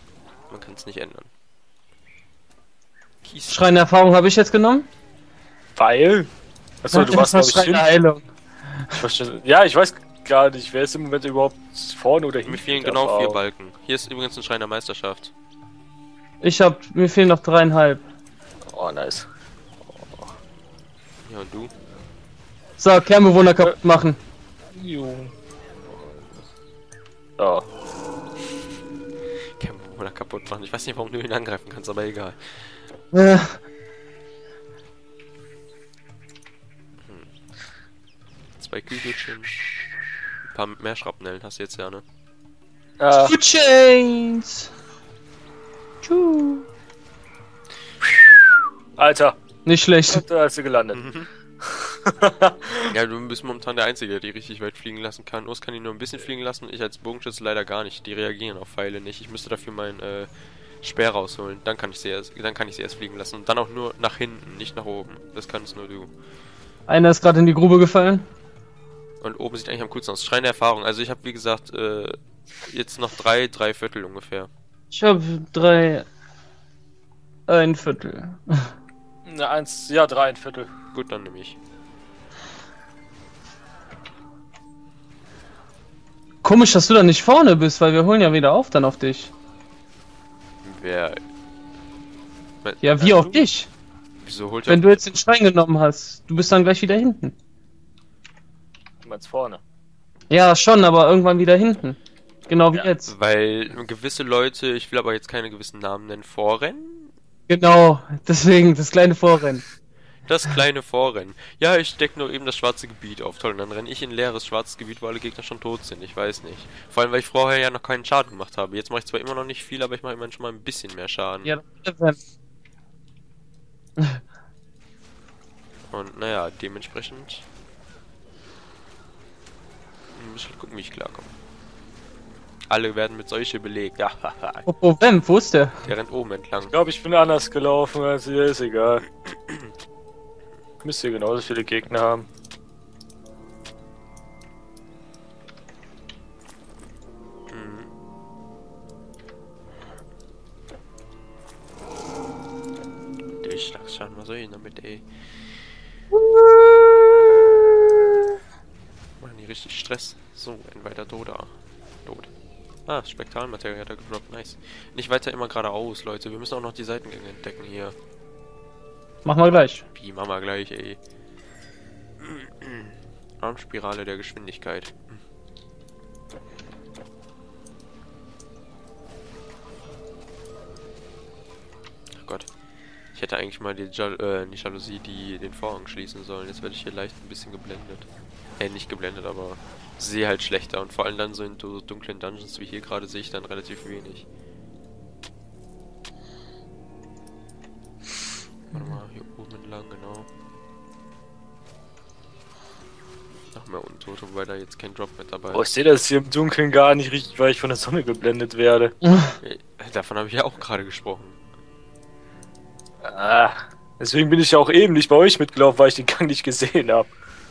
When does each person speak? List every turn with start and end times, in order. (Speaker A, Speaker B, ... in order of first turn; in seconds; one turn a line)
Speaker A: 0.5-1.3
Speaker A: 3.2-3.7
Speaker B: 3.5-4.9
Speaker C: 5.8-6.3
Speaker C: 6.8-7.9
Speaker B: 6.9-9.0
Speaker C: 8.9-13.4
Speaker A: 12.4-15.3
Speaker B: 16.4-18.0
Speaker C: 18.7-19.2
Speaker C: 19.9-20.3
Speaker A: 21.2-21.7
Speaker B: 22.8-24.2
Speaker C: 24.7-25.3
Speaker C: 27.4-27.7
Speaker A: 29.6-32.9
Speaker B: 33.1-33.6
Speaker A: 37.0-37.3
Speaker A: 38.6-39.7
Speaker A: 40.5-42.0
Speaker C: 43.0-43.3
Speaker B: 43.1-44.7
Speaker B: 46.0-46.6
Speaker C: 49.0-49.4
Speaker B: 49.6-50.2
Speaker C: 50.1-51.0
Speaker A: 50.9-51.3
Speaker C: 51.6-52.9
Speaker A: 52.9-60.3
Speaker A: 60.8-66.1
Speaker B: 66.9-68.2
Speaker A: 69.2-74.5
Speaker B: 74.9-76.0
Speaker B: 77.5-78.7
Speaker C: 79.2-80.7
Speaker A: 80.9-81.6
Speaker B: 86.4-89.3
Speaker A: 90.6-91.2
Speaker A: 92.6-93.0
Speaker B: 92.8-93.7
Speaker C: 93.0-93.3
Speaker A: 94.2-95.0
Speaker B: 94.7-97.3
Speaker C: 99.0-99.6
Speaker B: 100.3-102.0
Speaker B: 102.5-103.1
Speaker A: 103.0-107.1
Speaker B: 107.5-109.6
Speaker A: 110.2-121.5
Speaker B: 121.4-122.2
Speaker A: 125.9-127.5
Speaker A: 130.1-131.3
Speaker A: 132.7-134.7
Speaker B: 134.7-135.8
Speaker A: 135.8-136.7
Speaker C: 136.6-139.0
Speaker A: 139.3-139.7
Speaker C: 140.8-142.3
Speaker A: 147.5-147.9
Speaker A: 153.4-155.1
Speaker A: 159.2-162.3
Speaker A: 162.9-167.9
Speaker B: 169.2-169.8
Speaker A: 169.9-171.0
Speaker A: 172.2-175.2
Speaker A: 182.2-182.5
Speaker A: 183.1-194.2
Speaker A: 198.7-200.3
Speaker A: 203.5-205.7
Speaker C: 205.5-208.9
Speaker B: 209.1-209.3
Speaker A: 209.4-211.4
Speaker C: 213.0-217.1